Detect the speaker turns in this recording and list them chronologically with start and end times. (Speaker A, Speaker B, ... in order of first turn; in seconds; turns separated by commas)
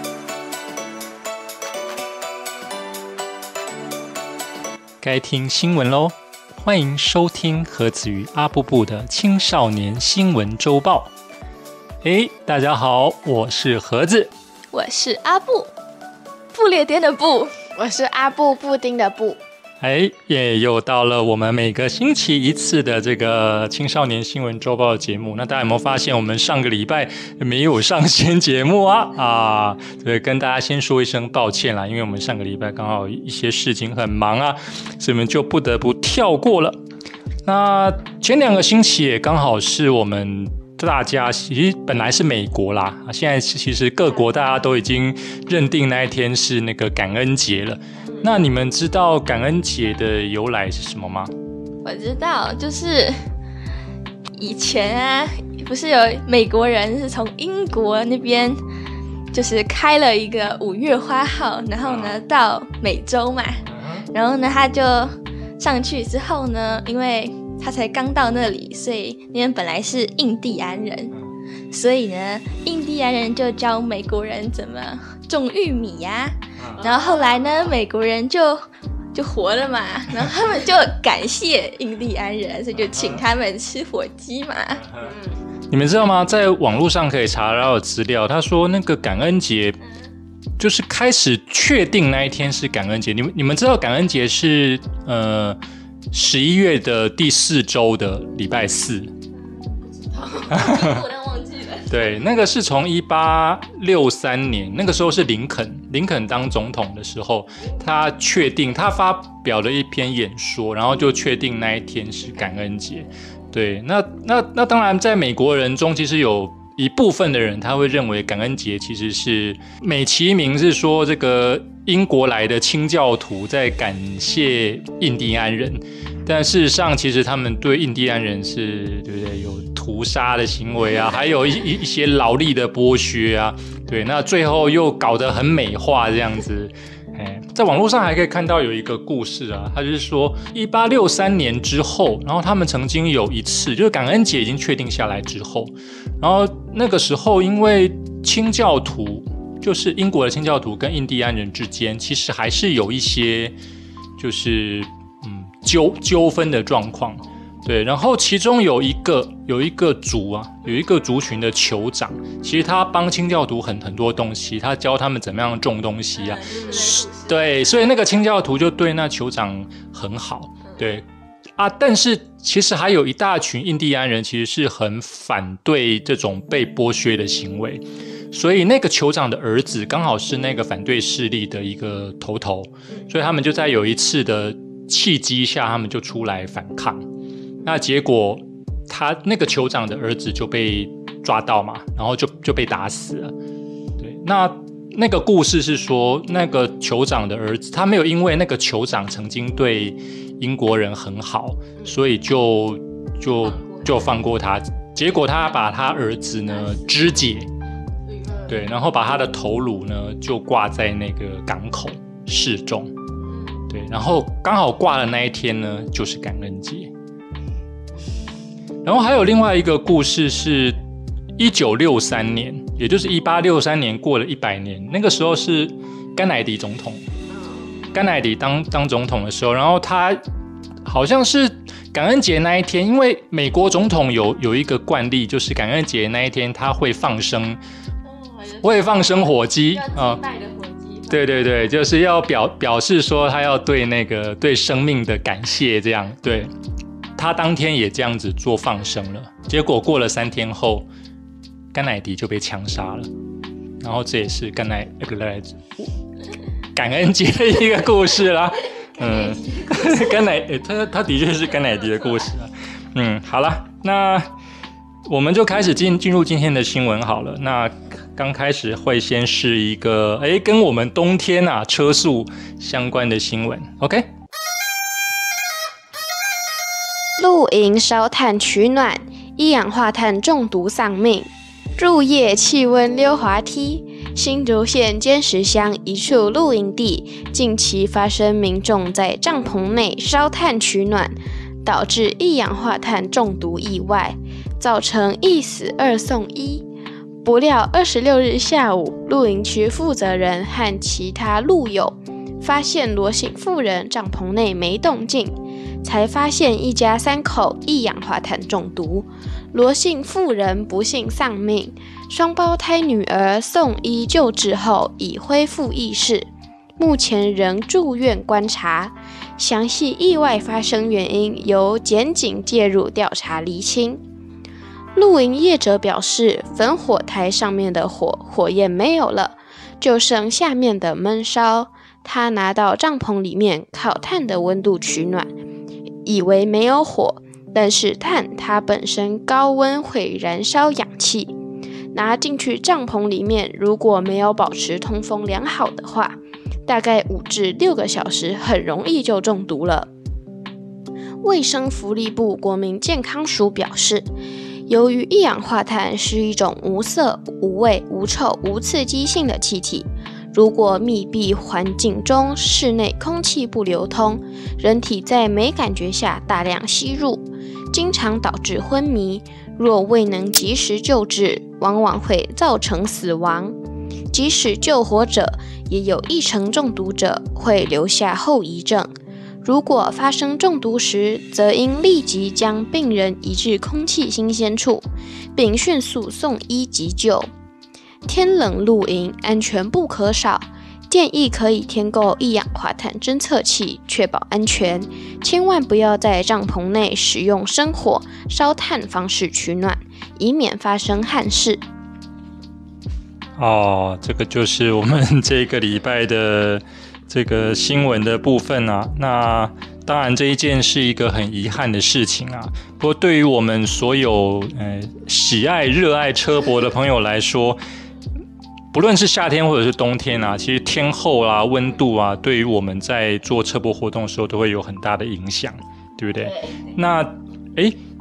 Speaker A: 5.0-11.1, Speaker A: 12.0-14.3, Speaker B: 14.7-15.7, Speaker B: 16.5-17.5, Speaker C: 17.8-19.4, Speaker A: 19.8-36.8, Speaker A: 37.5-51.3, Speaker B: 51.8-53.3, Speaker B: 54.3-58.6, Speaker B: 59.3-71.1, Speaker A: 61.8-62.2, Speaker A: 63.7-64.1, Speaker B: 71.7-78.6, Speaker A: 76.6-76.8, Speaker B: 79.1-84.8, Speaker A: 82.9-83.3, Speaker C: 85.0-85.4, Speaker A: 85.7-89.8, Speaker A: 90.6-95.6, Speaker A: 96.1-99.1, Speaker B: 99.6-101.9, Speaker A: 100.5-101.2, Speaker A: 101.8-153.6, Speaker A: 154.2-171.1, Speaker B: 166.3-167.3, Speaker A: 171.6-187.0, Speaker A: 187.6-193.3, Speaker A: 194.0-207.5, Speaker A: 208.5-212.9, Speaker A: 213.7-216.9, Speaker A: 218.8-220.8, Speaker A: 221.4-227.0, Speaker A: 227.9-230.2, Speaker A: 230.8-237.6, Speaker A: 238.6-240.2, Speaker B: 240.2-241.0, Speaker A: 241.1-246.5, Speaker A: 247.2-250.9, Speaker A: 251.7-253.1, Speaker A: 253.8-255.9, Speaker A: 256.8-264.3, Speaker A: 265.1-274.1, Speaker C: 277.2-296.7, Speaker C: 297.2-324.0, Speaker C: 324.9-335.3, Speaker C: 336.1-341.3, Speaker C: 341.9-349.9, Speaker C: 351.2-354.1, Speaker C: 354.7-373.6, Speaker C: 374.1-378.9, Speaker C: 379.4-387.3, Speaker C: 388.1-401.6, Speaker A: 403.4-417.6, Speaker A: 418.7-427.8